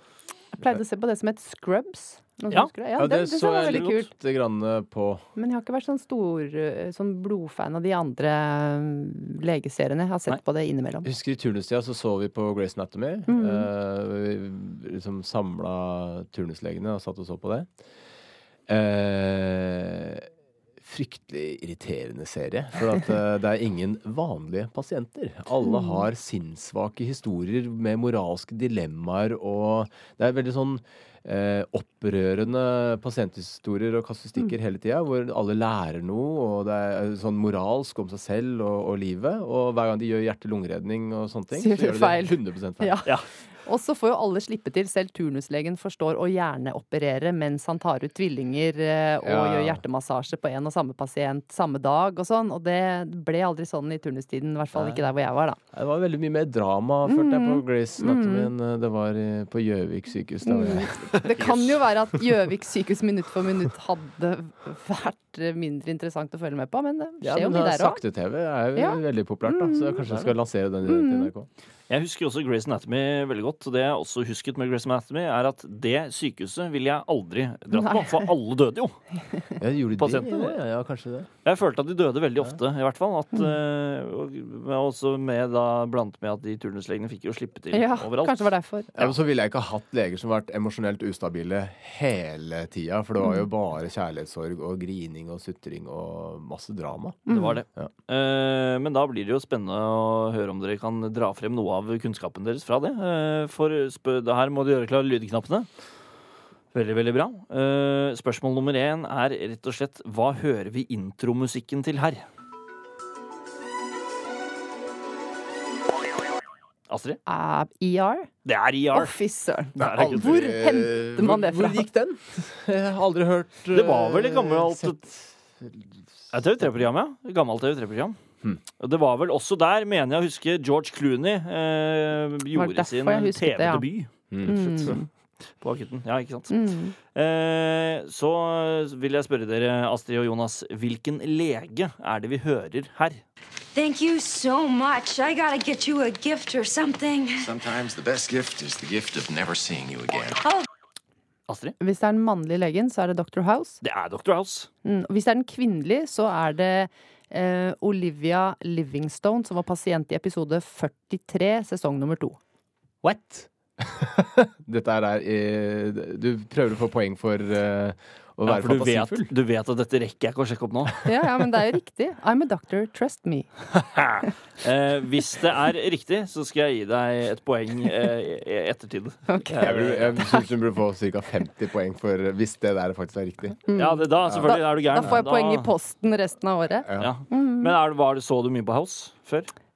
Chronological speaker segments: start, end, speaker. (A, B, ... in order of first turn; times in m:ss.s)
0:00.5-0:04.1 A
0:03.0-0:05.2 B
0:03.5-0:04.0 C
0:05.4-0:11.1 A
0:11.0-0:17.7 B
0:13.3-0:13.7 A
0:18.7-0:20.3 B
0:20.8-0:43.0 B
0:25.7-0:26.0 A
0:41.6-0:55.6 A
0:49.2-0:49.8 B
0:54.8-0:55.0 B
0:55.7-1:01.0 B
0:57.0-0:58.5 A
1:00.4-1:08.0 A
1:01.4-1:01.8 C
1:07.2-1:11.5 B
1:08.8-1:10.3 A
1:10.9-1:11.3 A
1:11.9-1:19.0 C
1:17.7-1:18.3 A
1:19.6-1:21.3 B
1:20.0-1:20.6 C
1:21.4-1:29.1 C
1:27.7-1:28.9 A
1:29.0-1:37.2 B
1:37.3-1:37.6 A
1:37.3-1:45.7 C
1:46.7-1:52.2 C
1:56.9-1:57.2 C
1:57.3-1:58.3 A
1:58.4-1:59.2 C
1:58.9-2:01.9 A
1:59.8-2:00.4 C
1:59.9-2:05.8 B
2:03.7-2:05.0 C
2:06.3-2:08.2 C
2:08.8-2:14.9 C
2:12.6-2:13.9 A
2:14.3-2:14.9 B
2:14.4-2:15.1 A
2:15.6-2:23.2 C
2:16.5-2:16.9 A
2:23.8-2:27.4 D
2:27.4-2:30.4 E
2:31.5-2:31.8 C
2:31.8-2:33.8 A
2:33.8-2:34.7 C
2:34.8-2:42.4 A
2:43.0-2:49.3 B
2:48.4-2:51.0 C
2:51.0-2:53.5 A
2:53.7-3:00.3 C
2:59.3-2:59.7 A
2:59.6-3:03.6 B
3:03.7-3:07.7 A
3:03.8-3:05.7 C
3:04.2-3:05.2 B
3:06.8-3:07.1 B
3:07.0-3:09.5 C